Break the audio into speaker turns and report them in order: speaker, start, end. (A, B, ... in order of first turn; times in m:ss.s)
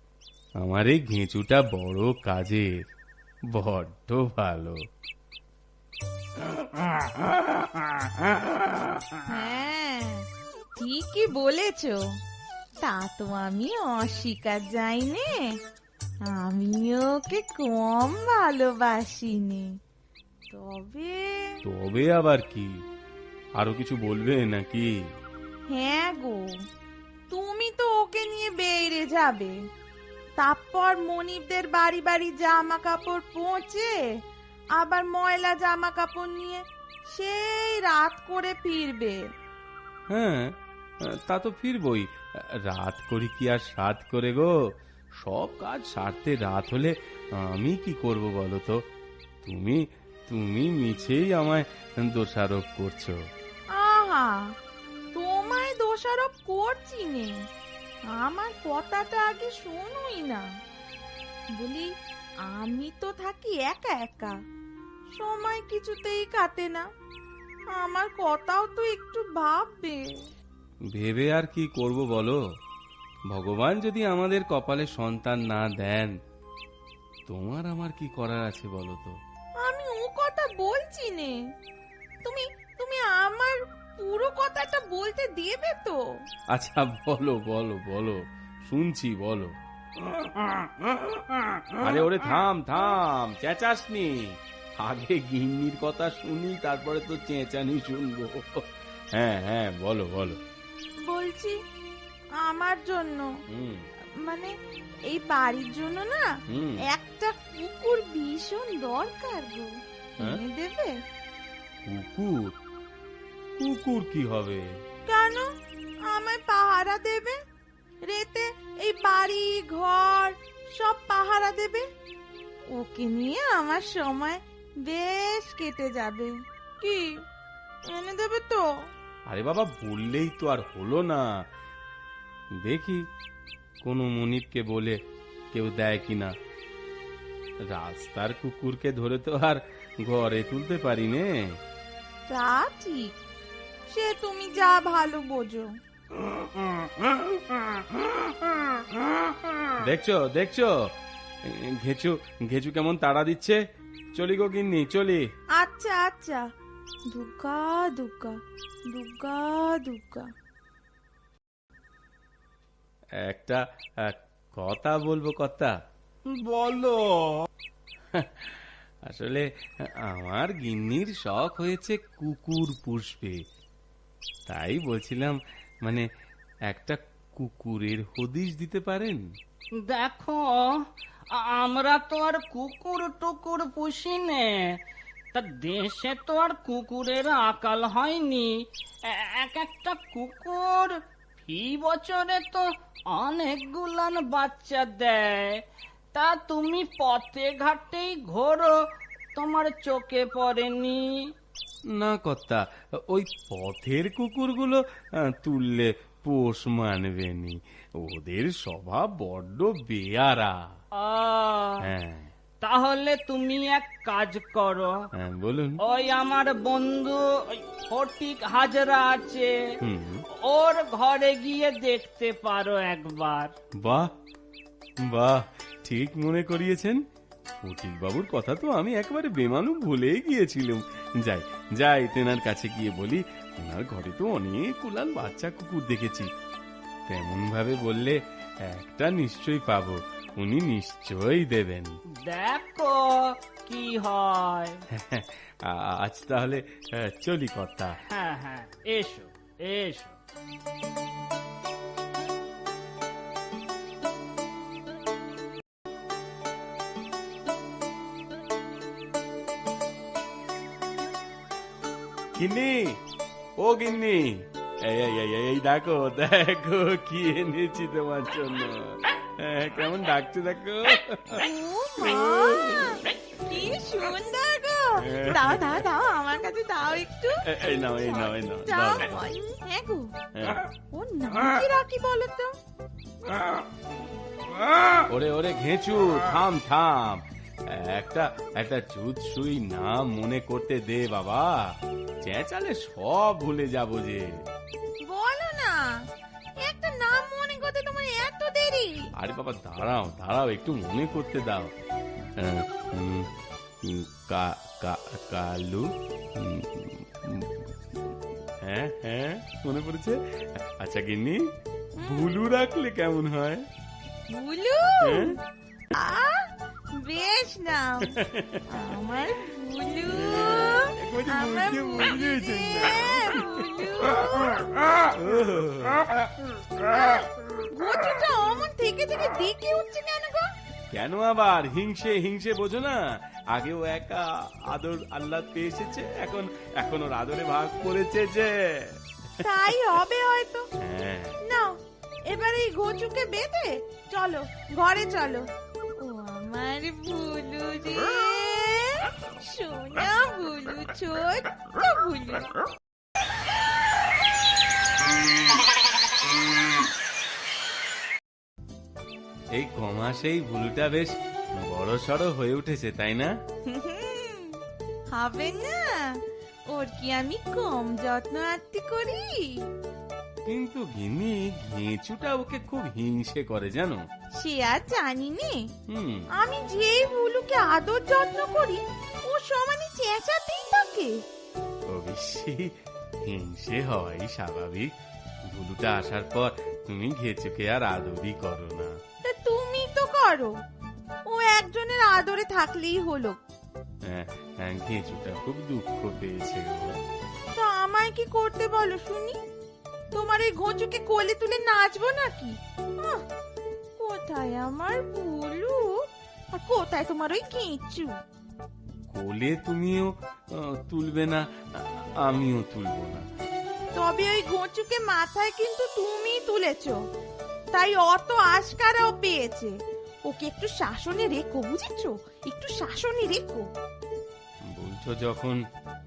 0:00.6-0:02.7 A
0:03.5-0:04.8 A
0:06.5-0:09.1 B
0:09.3-0:10.2 C
0:10.8-0:12.0 C
0:12.8-0:15.3 C
0:16.3-0:19.7 C
0:20.5-0:21.5 C
0:21.6-0:22.7 A
0:23.6-0:24.9 A
0:25.7-0:26.4 C
0:27.3-0:29.5 C
0:30.4-0:33.9 C
0:34.8-0:39.2 C
0:40.1-0:40.5 A
0:41.1-0:42.1 A
0:42.6-0:44.5 A
0:45.2-0:48.8 A
0:49.4-0:53.1 A
0:53.8-0:54.4 C
0:55.1-0:57.3 C
0:58.2-1:00.4 C
1:01.6-1:01.9 C
1:02.5-1:04.3 C
1:05.2-1:06.8 C
1:07.8-1:10.0 C
1:10.9-1:12.4 A
1:13.3-1:16.1 A
1:17.3-1:19.1 A
1:19.6-1:21.4 C
1:22.2-1:26.0 C
1:26.5-1:29.5 A
1:31.8-1:38.6 A
1:39.1-1:40.4 A
1:41.0-1:41.6 C
1:42.4-1:43.3 C
1:43.5-1:43.8 A
1:44.2-1:44.5 C
1:45.1-1:46.2 C
1:46.5-1:46.8 A
1:46.9-1:50.9 C
1:51.9-1:52.5 A
1:53.6-1:54.6 A
1:55.1-1:55.4 C
1:56.1-1:57.4 C
1:58.1-2:01.8 C
2:02.8-2:07.1 C
2:07.9-2:08.6 C
2:09.3-2:11.2 A
2:12.6-2:13.0 A
2:13.8-2:15.0 A
2:15.5-2:16.3 A
2:17.7-2:21.3 A
2:22.3-2:23.1 C
2:23.9-2:25.7 C
2:26.4-2:27.4 B
2:29.8-2:30.7 A
2:31.5-2:33.6 A
2:34.1-2:35.2 A
2:35.6-2:36.4 C
2:37.1-2:38.4 C
2:38.9-2:40.2 C
2:43.2-2:45.7 A
2:46.3-2:47.4 B
2:48.1-2:49.4 A
2:50.1-2:53.4 A
2:54.5-2:56.0 A
2:56.7-2:59.2 A
2:59.8-3:00.7 B
3:01.3-3:04.6 B
3:05.3-3:08.5 B
3:09.1-3:15.5 B
3:16.1-3:18.8 B
3:19.3-3:21.1 B
3:22.0-3:30.5 A
3:31.0-3:31.8 B
3:31.8-3:32.3 A
3:32.6-3:34.9 B
3:35.2-3:35.8 A
3:35.8-3:39.6 B
3:39.8-3:40.2 A
3:40.4-3:43.5 B
3:45.1-3:47.0 A
3:47.6-3:56.3 A
3:57.1-4:01.9 A
4:02.2-4:04.8 B
4:04.9-4:07.9 A
4:08.1-4:10.2 B
4:22.3-4:23.0 A
4:23.6-4:31.4 A
4:31.4-4:40.1 C
4:35.0-4:35.8 A
4:37.4-4:39.2 A
4:40.4-4:40.6 A
4:40.9-4:42.5 C
4:45.1-4:47.2 A
4:47.7-4:51.5 A
4:52.2-4:54.3 A
4:55.0-4:55.8 C
4:56.6-4:58.9 C
4:59.2-5:01.7 A
5:02.4-5:03.3 A
5:03.8-5:05.8 A
5:06.4-5:07.6 A
5:08.6-5:11.4 A
5:12.0-5:12.3 C
5:12.0-5:13.6 A
5:14.3-5:15.4 C
5:15.0-5:15.3 A
5:15.9-5:16.4 C
5:17.0-5:18.1 C
5:18.2-5:18.6 A
5:18.7-5:24.6 C
5:20.1-5:24.1 A
5:25.1-5:26.0 A
5:26.8-5:30.5 C
5:30.9-5:33.0 A
5:33.5-5:39.0 A
5:39.4-5:40.6 C
5:40.8-5:41.4 A
5:41.4-5:41.7 C
5:42.3-5:45.5 C
5:46.0-5:52.5 C
5:59.5-6:03.3 A
6:03.7-6:04.6 C
6:05.1-6:06.0 C
6:06.7-6:09.5 C
6:10.4-6:14.0 A
6:14.4-6:15.6 C
6:15.9-6:16.2 A
6:16.4-6:21.2 C
6:21.9-6:22.7 A
6:23.2-6:24.9 A
6:25.5-6:28.9 A
6:29.3-6:30.5 C
6:31.3-6:33.4 C
6:34.1-6:36.9 A
6:37.5-6:39.4 C
6:40.1-6:43.2 C
6:44.0-6:45.9 C
6:46.5-6:48.1 C
6:49.1-6:53.2 A
6:54.0-6:57.0 C
6:57.7-6:59.7 C
7:00.3-7:03.6 C
7:04.7-7:05.6 A